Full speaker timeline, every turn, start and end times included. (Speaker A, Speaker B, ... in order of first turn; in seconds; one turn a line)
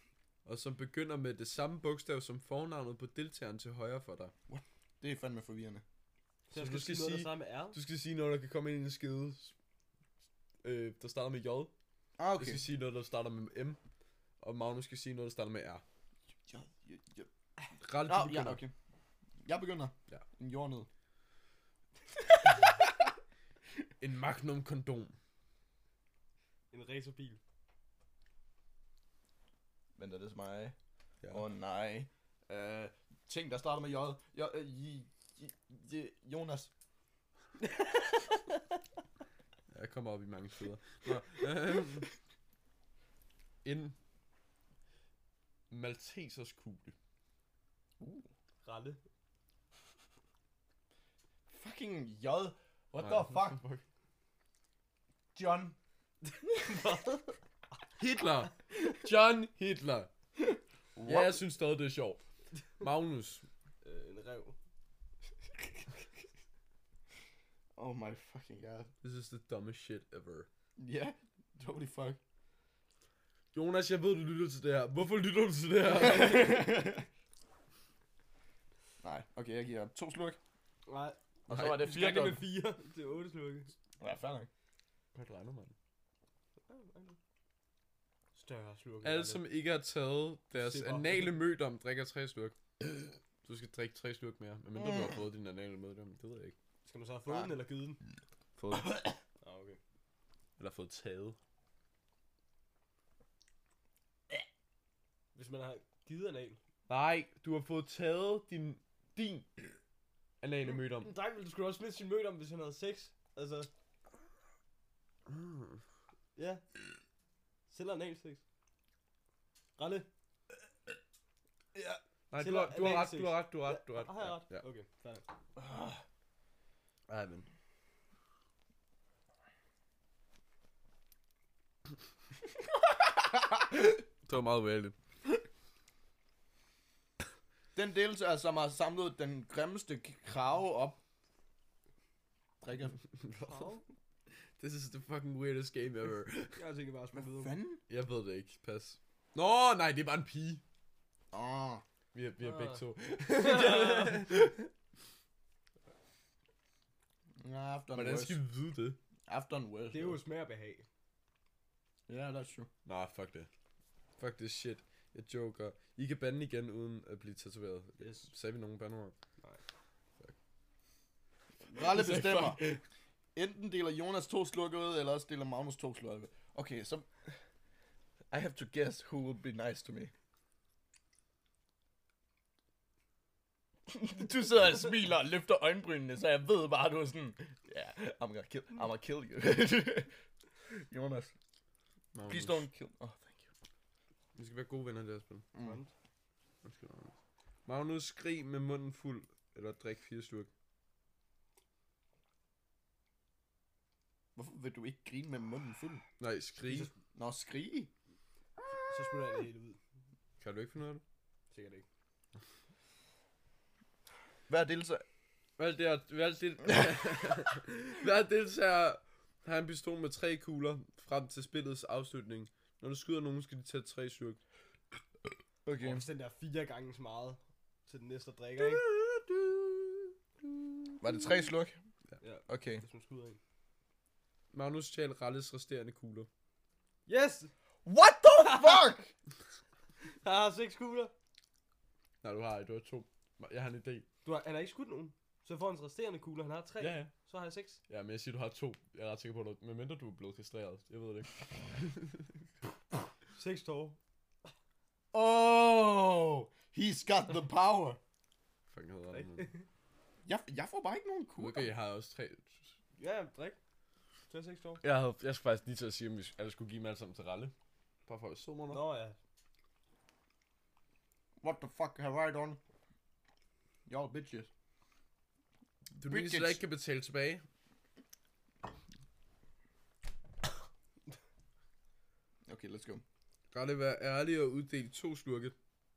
Speaker A: 0.5-4.3
Speaker B: 4.5-5.8
Speaker C: 6.5-7.8
Speaker A: 6.5-9.5
Speaker A: 10.6-11.7
Speaker B: 12.2-12.6
Speaker A: 12.4-13.8
Speaker A: 14.4-15.8
Speaker B: 16.5-17.3
Speaker A: 17.8-18.6
Speaker B: 18.1-18.7
Speaker B: 19.4-20.9
Speaker A: 24.0-25.1
Speaker C: 26.7-27.4
Speaker B: 30.0-30.8
Speaker B: 31.3-36.7
Speaker A: 39.7-42.1
Speaker A: 43.6-44.0
Speaker A: 45.7-47.0
Speaker B: 48.0-48.3
Speaker C: 48.6-49.0
Speaker B: 51.5-53.6
Speaker A: 53.0-53.8
Speaker B: 55.3-55.8
Speaker C: 56.2-57.4
Speaker A: 58.0-60.1
Speaker B: 61.0-61.5
Speaker A: 61.0-62.2
Speaker A: 62.8-63.4
Speaker C: 63.8-64.6
Speaker B: 67.8-68.9
Speaker A: 69.0-70.5
Speaker B: 70.8-72.2
Speaker A: 73.5-76.8
Speaker B: 75.9-77.1
Speaker B: 79.0-80.4
Speaker C: 80.9-83.8
Speaker B: 81.5-82.4
Speaker B: 84.0-84.5
Speaker A: 85.1-85.7
Speaker C: 86.7-87.2
Speaker C: 88.3-89.4
Speaker A: 89.0-92.6
Speaker C: 90.6-91.4
Speaker A: 93.4-96.5
Speaker B: 94.8-95.1
Speaker C: 96.9-98.0
Speaker B: 97.3-97.5
Speaker A: 98.6-99.0
Speaker B: 98.9-99.2
Speaker C: 99.4-99.8
Speaker A: 100.6-101.4
Speaker C: 105.3-106.6
Speaker A: 106.9-109.6
Speaker A: 110.4-111.1
Speaker C: 110.9-113.7
Speaker A: 115.3-115.8
Speaker C: 116.4-116.6
Speaker C: 117.7-118.4
Speaker C: 119.8-120.1
Speaker A: 122.3-124.6
Speaker C: 122.3-125.3
Speaker B: 125.6-126.0
Speaker A: 127.1-127.5
Speaker A: 134.2-134.9
Speaker B: 137.8-141.0
Speaker B: 142.6-143.0
Speaker A: 143.2-143.8
Speaker C: 143.4-143.8
Speaker A: 144.6-146.6
Speaker C: 146.6-147.6
Speaker B: 147.1-147.8
Speaker A: 147.9-150.6
Speaker B: 151.3-151.8
Speaker A: 152.1-154.7
Speaker C: 152.4-154.4
Speaker B: 157.4-158.4
Speaker A: 157.9-159.0
Speaker B: 159.3-160.2
Speaker C: 159.9-160.9
Speaker B: 162.1-162.7
Speaker A: 162.9-163.5
Speaker A: 164.2-169.1
Speaker C: 168.0-168.3
Speaker B: 171.7-172.7
Speaker A: 171.8-172.8
Speaker B: 173.3-177.4
Speaker B: 178.3-180.1
Speaker B: 183.9-190.1
Speaker B: 190.7-191.3
Speaker A: 192.1-192.7
Speaker B: 192.2-193.5
Speaker A: 194.4-195.5
Speaker B: 195.5-195.8
Speaker C: 195.6-195.9
Speaker A: 196.6-197.1
Speaker A: 197.7-200.5
Speaker B: 204.3-206.0
Speaker A: 206.2-206.9
Speaker B: 206.7-207.9
Speaker C: 208.9-209.8
Speaker A: 210.4-211.0
Speaker C: 211.5-211.8
Speaker B: 214.5-215.1
Speaker A: 215.6-224.4
Speaker B: 225.6-226.0
Speaker C: 225.8-228.8
Speaker A: 228.8-230.1
Speaker A: 230.7-231.0
Speaker B: 231.0-231.8
Speaker C: 232.2-233.4
Speaker B: 232.5-232.8
Speaker A: 234.5-236.3
Speaker C: 237.1-237.5
Speaker B: 237.8-239.1
Speaker C: 238.4-238.8
Speaker C: 240.1-241.1
Speaker A: 242.2-244.1
Speaker C: 244.2-247.8
Speaker A: 246.8-247.1
Speaker A: 247.9-252.3
Speaker C: 253.3-254.0
Speaker B: 255.1-258.0
Speaker A: 258.7-259.5
Speaker C: 259.1-259.6
Speaker B: 260.2-261.7
Speaker A: 261.4-262.7
Speaker C: 263.0-263.6
Speaker C: 264.3-264.8
Speaker A: 264.8-267.5
Speaker A: 268.1-268.8
Speaker C: 268.7-269.2
Speaker B: 271.4-272.6
Speaker B: 273.9-274.5
Speaker A: 276.0-277.4
Speaker B: 276.1-276.6
Speaker B: 282.5-283.0
Speaker A: 283.5-285.6